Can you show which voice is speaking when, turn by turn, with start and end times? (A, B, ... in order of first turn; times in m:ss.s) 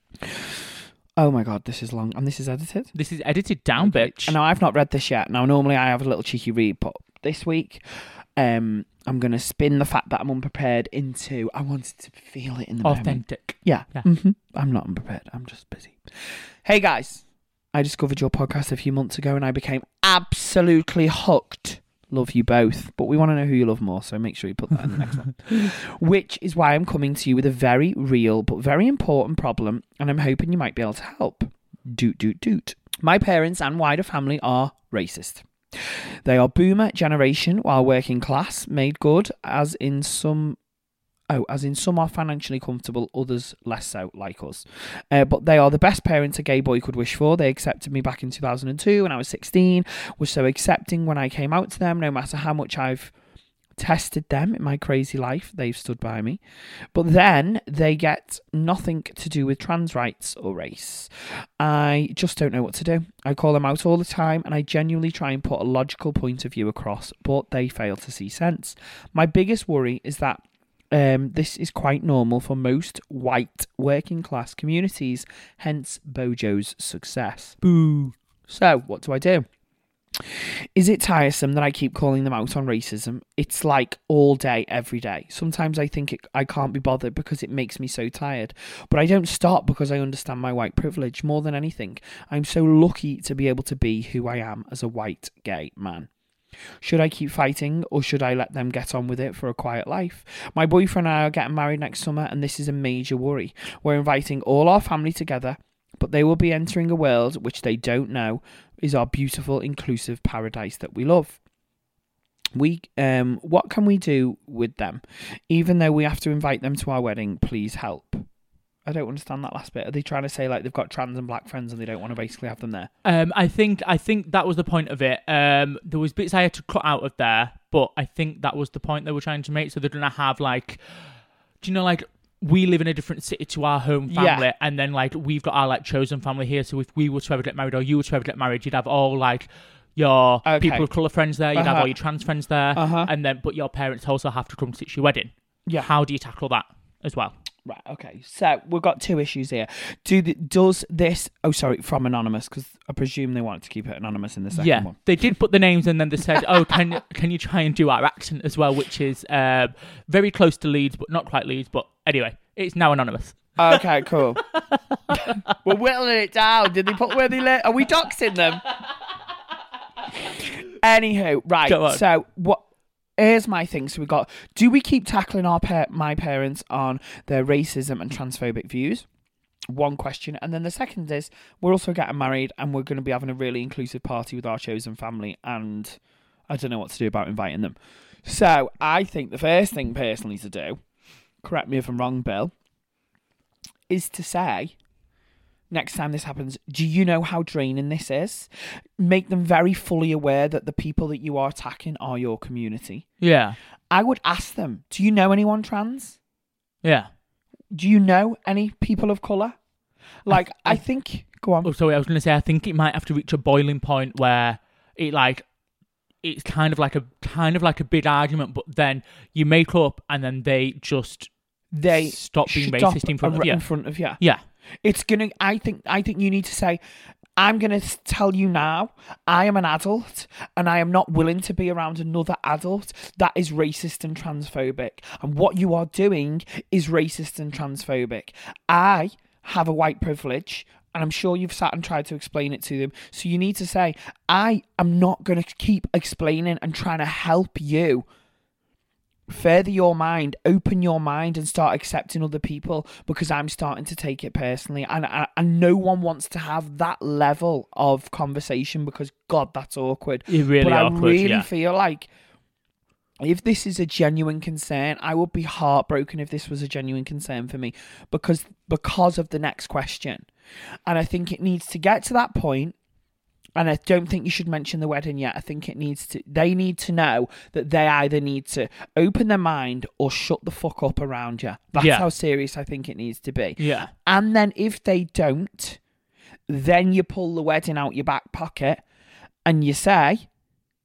0:00.2-0:02.9 A
0:03.0-0:04.4 B
0:03.8-0:40.6 A
0:12.8-0:14.1 B
0:41.3-0:53.1 A
0:53.8-0:56.4 A
0:56.9-1:17.6 A
1:17.6-1:18.2 B
1:18.5-1:19.5 A
1:20.2-1:36.1 A
1:36.8-1:51.4 A
1:52.5-1:58.3 A
1:58.8-2:02.9 A
2:03.0-2:10.8 B
2:11.6-2:27.4 B
2:14.1-2:14.5 A
2:20.4-2:20.9 A
2:21.5-2:21.9 A
2:22.8-2:23.1 A
2:27.7-2:35.0 A
2:34.5-2:43.8 B
2:36.4-2:36.8 A
2:43.6-2:44.4 A
2:44.5-2:45.5 B
2:45.1-2:48.7 A
2:50.1-2:52.6 A
2:51.7-2:52.0 B
2:53.2-2:59.1 A
2:59.7-3:10.8 A
3:11.4-3:12.5 A
3:13.9-3:14.8 A
3:15.7-3:23.1 A
3:23.2-3:23.6 B
3:23.9-3:26.2 A
3:26.8-3:27.1 B
3:27.7-3:29.6 A
3:30.3-3:31.7 A
3:31.6-3:35.5 B
3:36.2-3:41.3 B
3:41.7-3:44.2 A
3:41.9-3:43.7 B
3:44.2-3:44.4 B
3:44.8-3:46.8 A
3:47.4-4:08.1 A
4:09.3-4:22.1 A
4:20.3-4:21.5 B
4:23.2-4:30.3 A
4:30.9-4:32.8 A
4:33.6-4:45.8 A
4:41.8-4:42.1 B
4:43.6-4:43.9 B
4:46.5-4:48.8 A
4:49.4-4:50.3 A